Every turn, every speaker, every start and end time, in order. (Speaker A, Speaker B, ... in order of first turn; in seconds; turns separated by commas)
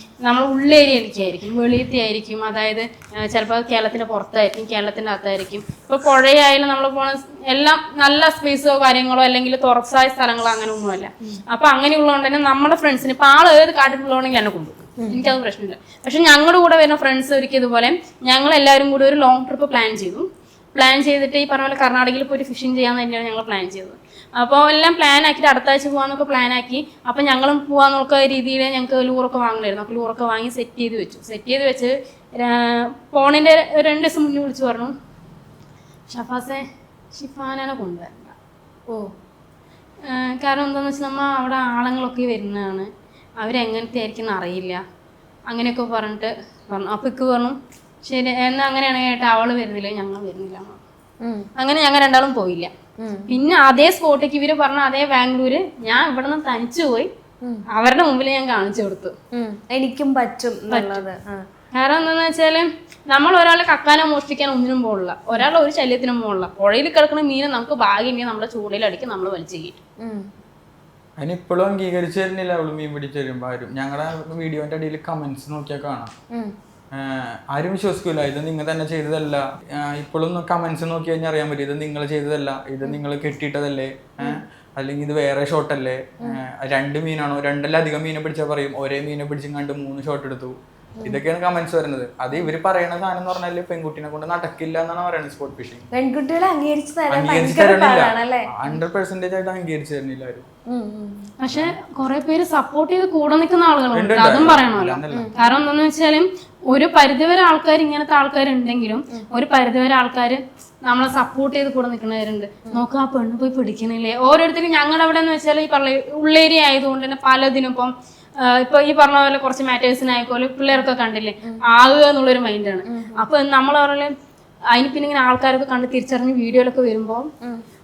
Speaker A: 0.2-34.9, Speaker B: 15.0-15.3, Speaker A: 36.1-38.4, Speaker A: 40.0-42.9, Speaker A: 43.4-44.8, Speaker A: 45.5-50.8, Speaker A: 51.6-52.7, Speaker B: 53.0-53.4, Speaker A: 53.3-57.1, Speaker A: 57.7-59.1, Speaker B: 59.3-61.4, Speaker A: 60.7-61.0, Speaker A: 61.7-69.8, Speaker C: 71.2-76.1, Speaker C: 76.9-95.8, Speaker B: 95.9-98.8, Speaker C: 97.1-100.4, Speaker B: 100.7-101.3, Speaker A: 101.4-124.1, Speaker C: 101.5-101.8, Speaker C: 103.9-105.3, Speaker B: 105.1-105.5, Speaker B: 122.9-123.3, Speaker A: 124.7-127.3